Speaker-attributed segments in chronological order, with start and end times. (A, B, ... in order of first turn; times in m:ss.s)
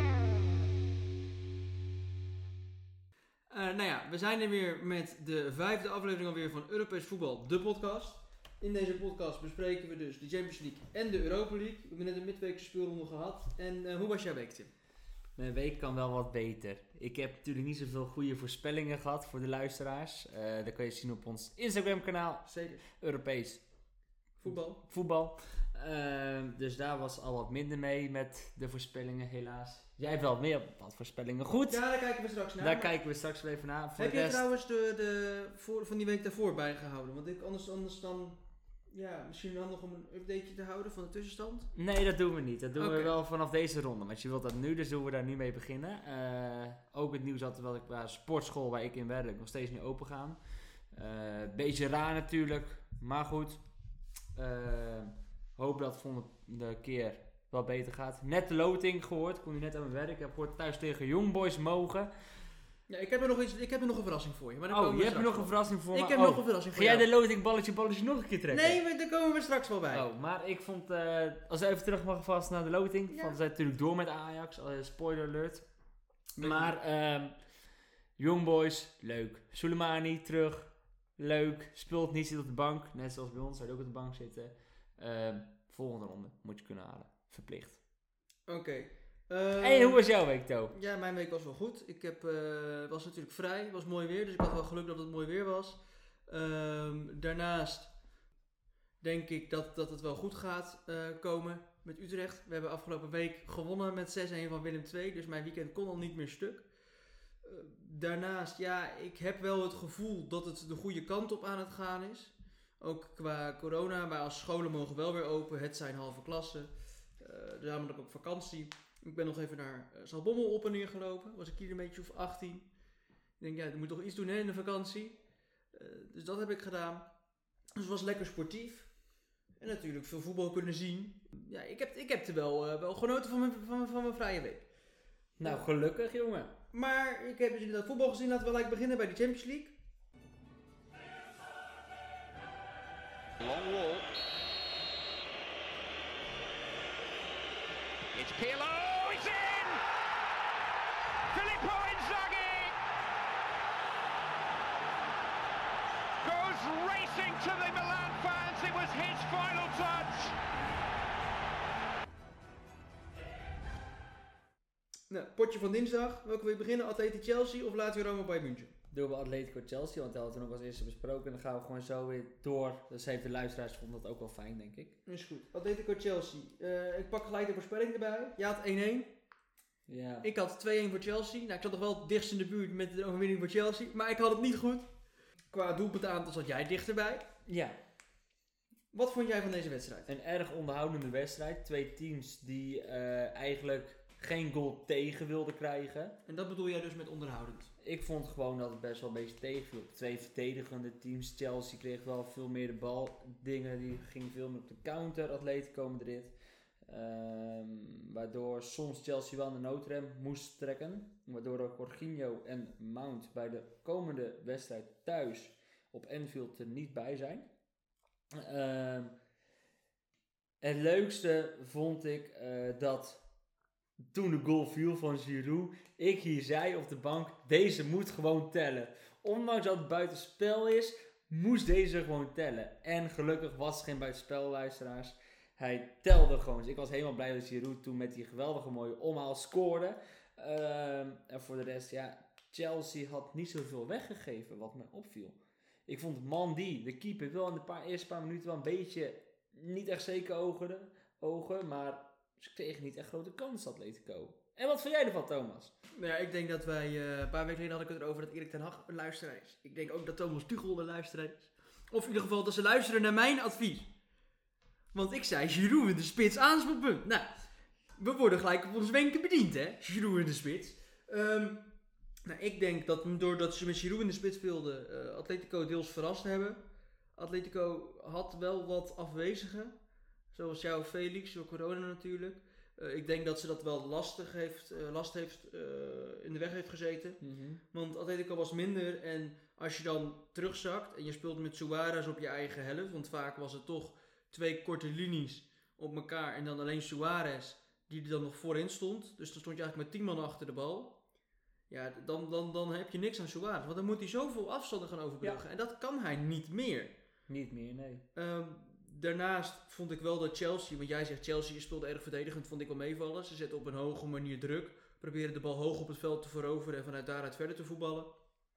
0:03.5-0:14.7 A
0:15.4-0:23.6 B
0:22.4-0:22.8 A
0:24.4-0:24.8 A
0:24.4-0:31.8 B
0:31.7-0:32.9 A
0:32.6-0:34.4 B
0:34.0-0:38.4 A
0:38.9-0:41.7 A
0:41.8-0:50.4 B
0:42.8-0:43.1 A
0:50.9-0:53.6 B
0:54.3-1:02.1 B
1:02.9-1:07.1 A
1:04.7-1:08.8 B
1:08.5-1:10.0 A
1:09.9-1:15.6 B
1:13.1-1:13.4 A
1:16.4-1:16.7 A
1:16.4-1:17.3 B
1:18.2-1:27.8 B
1:28.5-1:30.0 A
1:29.6-1:30.7 B
1:30.7-1:37.9 A
1:39.0-1:46.7 A
1:47.4-2:02.7 A
2:03.4-2:05.2 A
2:05.7-2:07.1 A
2:07.8-2:08.9 A
2:09.6-2:14.6 A
2:15.4-2:16.5 B
2:16.7-2:19.7 A
2:23.4-2:24.1 C
2:28.1-2:29.8 C
2:31.3-2:32.8 C
2:36.2-2:40.3 C
2:45.1-2:48.7 A
2:48.9-2:55.0 B
2:55.1-2:59.1 A
2:59.9-3:00.3 B
3:00.2-3:04.9 A
3:05.5-3:07.3 A
3:07.5-3:07.8 B
3:08.9-3:10.1 A
3:10.1-3:16.2 B
3:16.2-3:17.7 A
3:17.8-3:26.3 B
3:26.9-3:37.5 B
3:38.3-3:39.1 B
3:40.6-3:43.2 B
3:44.1-4:15.7 B
4:16.0-4:23.9 A
4:24.9-4:27.3 A
4:28.0-4:31.7 A
4:32.2-4:36.6 A
4:37.2-4:39.8 A
4:40.3-4:47.2 A
4:47.2-4:47.6 B
4:47.7-5:00.9 A
5:01.7-5:06.9 A
5:07.3-5:08.0 B
5:08.1-5:18.1 A